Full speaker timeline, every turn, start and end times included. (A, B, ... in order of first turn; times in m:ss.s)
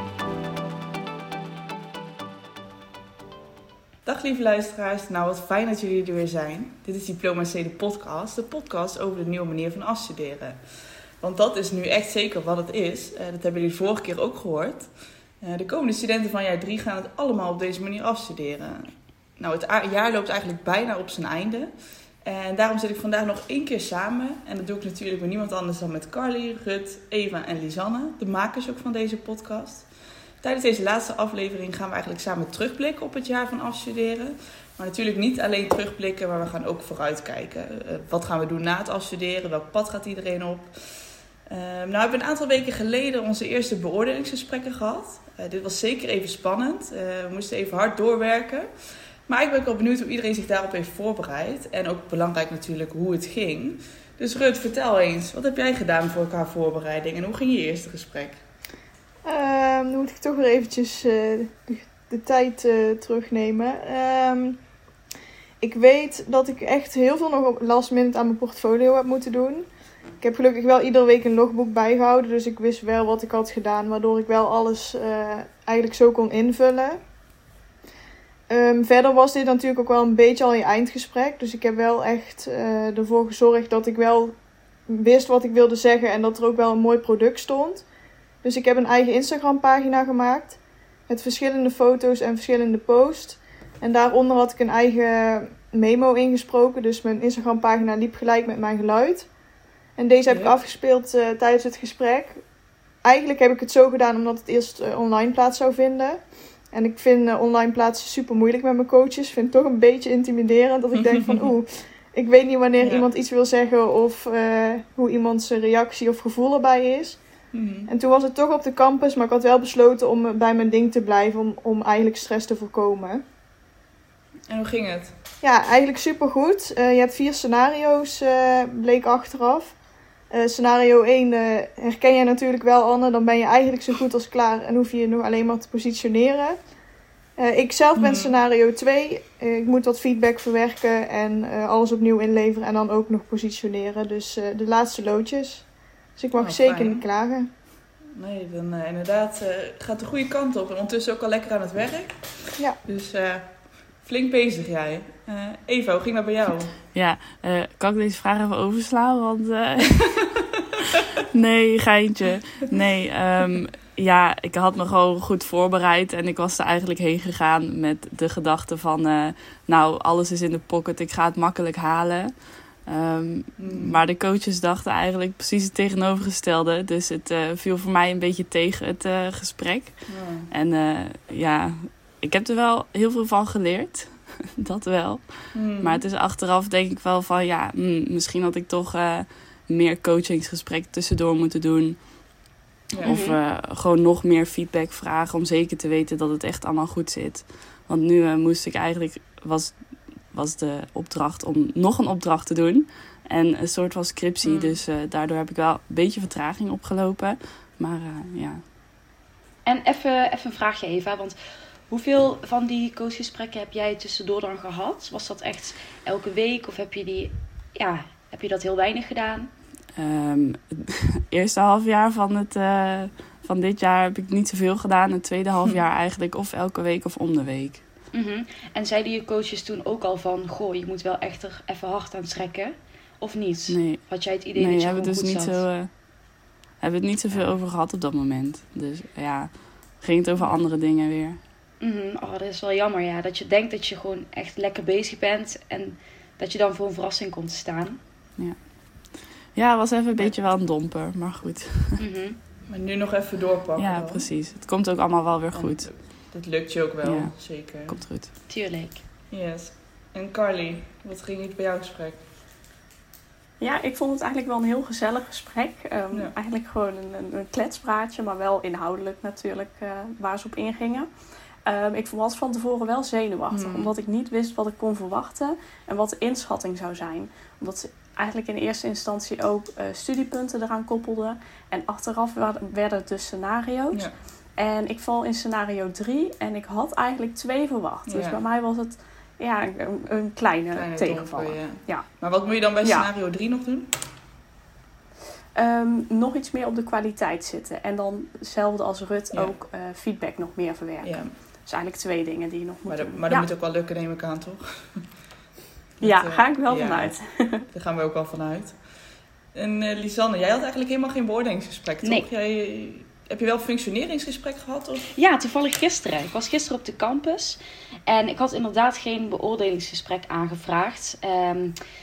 0:04.0-0:10.6 A
0:11.2-0:14.9 A
0:15.4-0:21.7 A
0:22.2-0:29.9 A
0:30.4-0:48.7 A
0:49.3-0:58.4 A
0:59.2-1:04.6 B
1:05.6-1:09.7 B
1:10.2-1:17.0 B
1:18.5-1:24.4 B
1:24.9-1:27.9 B
1:28.4-1:39.3 B
1:40.0-1:42.4 B
1:40.3-1:40.5 A
1:43.0-1:57.2 B
1:51.0-1:51.5 A
1:57.5-1:57.9 A
1:57.9-2:03.2 B
2:04.5-2:05.2 A
2:05.4-2:09.8 B
2:10.3-2:16.6 B
2:17.4-2:27.5 B
2:18.0-2:18.3 A
2:26.4-2:27.0 A
2:28.2-2:36.8 A
2:36.9-2:40.3 C
2:41.3-2:52.3 C
2:52.8-3:12.1 C
2:53.6-2:54.0 A
3:00.1-3:00.5 A
3:05.5-3:06.0 A
3:13.0-3:28.6 C
3:13.0-3:13.4 D
3:24.4-3:24.8 A
3:29.6-3:31.4 D
3:31.9-3:39.5 D
3:40.0-3:47.8 C
3:48.1-3:55.6 D
3:53.7-3:56.1 C
3:56.8-4:01.4 C
4:01.8-4:08.0 D
4:08.4-4:12.0 C
4:10.2-4:10.4 A
4:12.0-4:12.4 D
4:12.7-4:14.3 A
4:13.8-4:16.1 C
4:15.5-4:18.0 A
4:17.0-4:18.3 C
4:18.5-4:19.0 D
4:19.3-4:22.2 A
4:23.6-4:31.1 E
4:31.6-4:52.2 E
4:33.5-4:33.9 A
4:48.1-4:48.4 A
4:50.7-4:53.9 A
4:55.6-5:03.5 E
5:01.0-5:01.3 A
5:02.9-5:05.1 A
5:06.0-5:09.0 A
5:06.0-5:07.7 E
5:09.5-5:15.1 A
5:12.0-5:12.3 D
5:15.2-5:21.8 D